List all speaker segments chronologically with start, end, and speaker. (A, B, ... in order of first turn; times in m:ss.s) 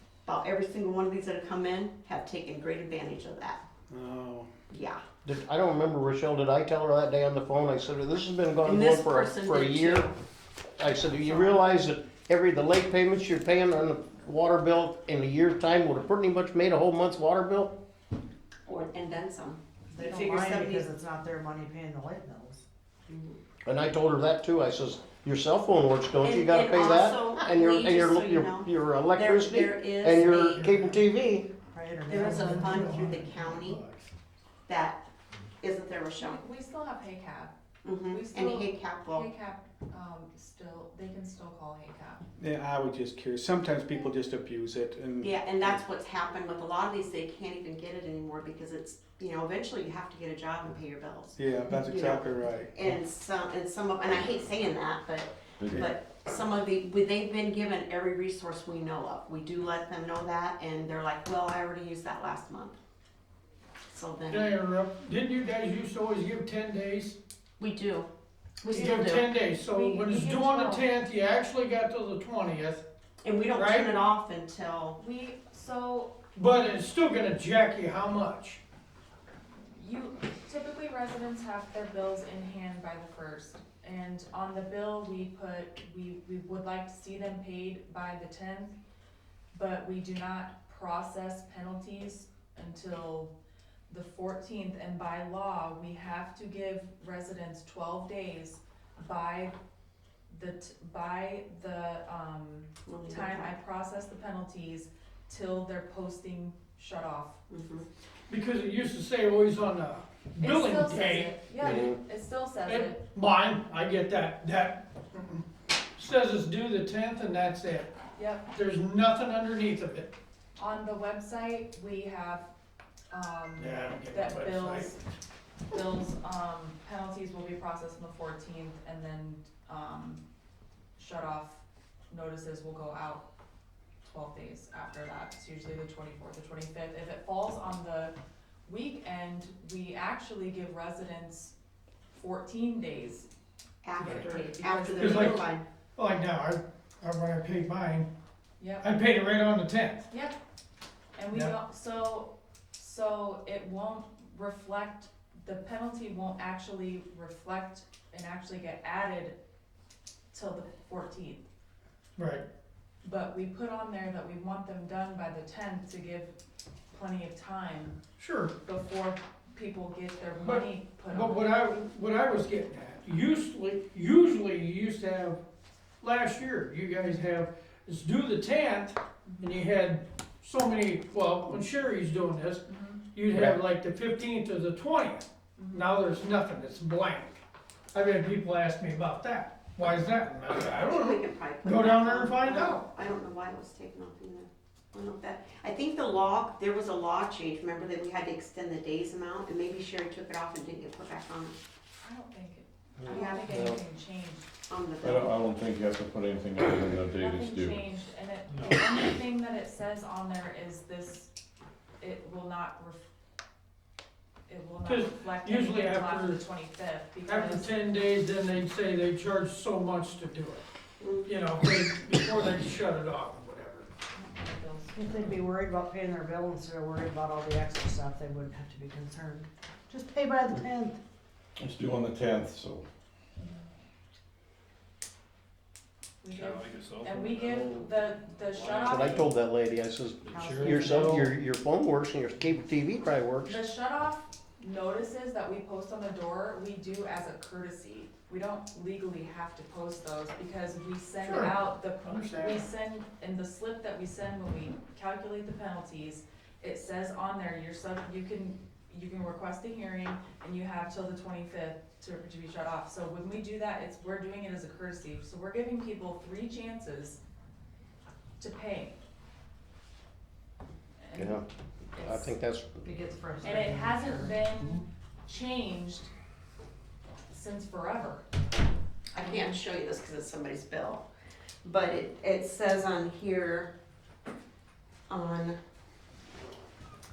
0:00.2-0:03.6 A
0:03.9-0:04.5 B
0:04.7-0:05.0 A
0:05.2-0:10.1 C
0:08.6-0:10.2 A
0:10.8-0:17.7 C
0:18.7-0:20.8 A
0:19.9-0:22.6 D
0:23.1-0:23.4 A
0:23.6-0:31.5 C
0:26.2-0:30.7 A
0:30.6-0:31.0 E
0:31.7-0:33.1 D
0:32.1-0:33.8 A
0:32.6-0:34.1 E
0:34.7-0:35.0 A
0:35.6-0:36.4 A
0:36.2-0:37.5 F
0:37.8-0:39.3 A
0:38.1-0:42.2 F
0:42.4-0:45.8 B
0:45.2-1:02.8 A
0:51.4-0:53.0 B
1:03.9-1:04.5 A
1:04.3-1:07.2 E
1:07.6-1:08.1 A
1:08.6-1:09.3 A
1:08.7-1:09.0 F
1:08.8-1:12.8 E
1:09.6-1:10.9 F
1:13.2-1:15.0 A
1:13.5-1:14.0 E
1:15.0-1:16.2 F
1:16.3-1:18.6 E
1:19.7-1:28.8 F
1:29.5-1:33.3 F
1:33.9-1:39.6 F
1:40.3-1:47.4 F
1:42.8-1:43.5 A
1:47.5-1:47.8 A
1:48.3-1:51.3 E
1:50.4-1:53.0 F
1:51.6-1:52.0 C
1:52.6-1:55.4 E
1:56.0-1:57.9 E
1:58.2-1:58.5 F
1:58.5-2:00.1 E
2:00.6-2:02.5 F
2:03.1-2:05.0 F
2:03.6-2:04.9 E
2:05.7-2:10.2 F
2:11.0-2:13.2 F
2:14.0-2:18.1 F
2:18.6-2:21.5 F
2:22.1-2:23.3 F
2:23.8-2:25.6 A
2:24.0-2:24.3 E
2:24.0-2:25.4 F
2:25.0-2:25.4 E
2:26.0-2:28.1 E
2:28.6-2:28.9 F
2:28.8-2:30.1 E
2:30.1-2:30.3 F
2:31.1-2:39.3 F
2:40.3-2:41.4 F
2:42.2-2:42.4 E
2:43.0-2:46.4 F
2:46.9-2:48.0 F
2:48.2-2:48.6 E
2:48.6-2:51.4 F
2:50.4-2:55.4 E
2:56.0-3:07.4 E
3:02.7-3:03.0 F
3:05.6-3:06.0 F
3:07.9-3:12.8 E
3:10.6-3:21.6 A
3:22.0-3:24.5 F
3:23.1-3:23.6 A
3:23.4-3:23.8 C
3:24.7-3:25.4 A
3:25.0-3:27.9 G
3:27.2-3:31.3 F
3:32.0-3:33.0 F
3:34.5-3:37.7 F
3:34.8-3:36.4 E
3:37.2-3:40.6 E
3:41.0-3:41.3 A
3:41.2-3:43.9 E
3:44.1-3:45.0 F
3:45.0-3:51.0 D
3:51.6-3:52.8 G
3:56.2-3:59.1 F
3:56.4-3:57.9 G
3:58.5-3:59.3 G
3:58.8-4:03.6 C
4:00.3-4:01.3 D
4:03.4-4:27.2 F
4:11.2-4:12.4 E
4:28.4-4:29.0 F
4:31.0-4:31.4 F
4:31.2-4:31.4 C
4:31.9-4:32.3 F
4:32.0-4:32.9 C
4:32.8-4:34.4 D
4:33.4-4:36.1 F
4:37.3-4:38.2 F
4:39.1-4:39.6 F
4:39.2-4:41.0 A
4:41.6-4:43.7 A
4:45.1-4:45.6 A